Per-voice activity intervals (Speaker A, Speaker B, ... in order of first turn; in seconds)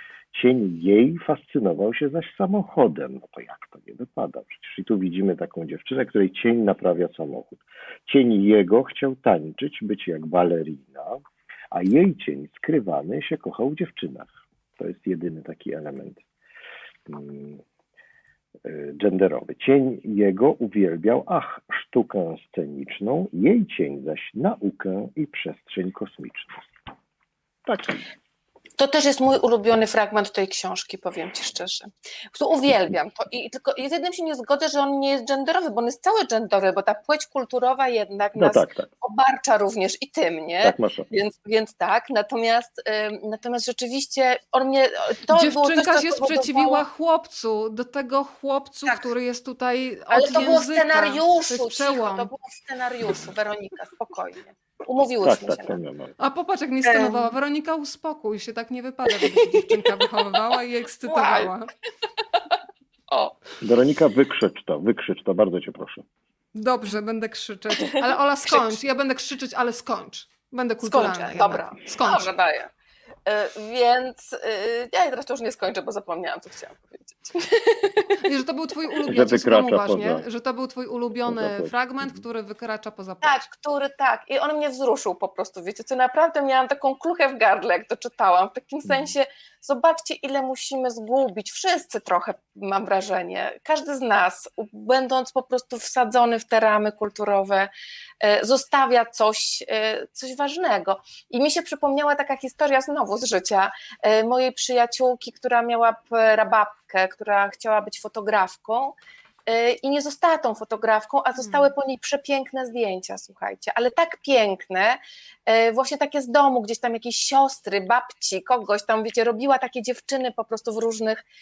Speaker A: 0.3-16.2, 17.1-17.6, 18.6-26.7, 27.6-28.0, 38.4-38.9, 40.6-41.1, 55.2-56.1, 63.6-66.0, 79.1-80.2, 81.3-81.7
Speaker B: 28.8-46.8, 50.1-55.8, 56.9-57.3, 59.2-59.9, 61.1-61.5, 63.1-63.4, 70.8-72.7, 73.3-78.3, 83.2-108.9, 109.5-121.2
Speaker C: 45.3-52.3, 56.2-61.7, 66.5-72.3, 78.2-83.4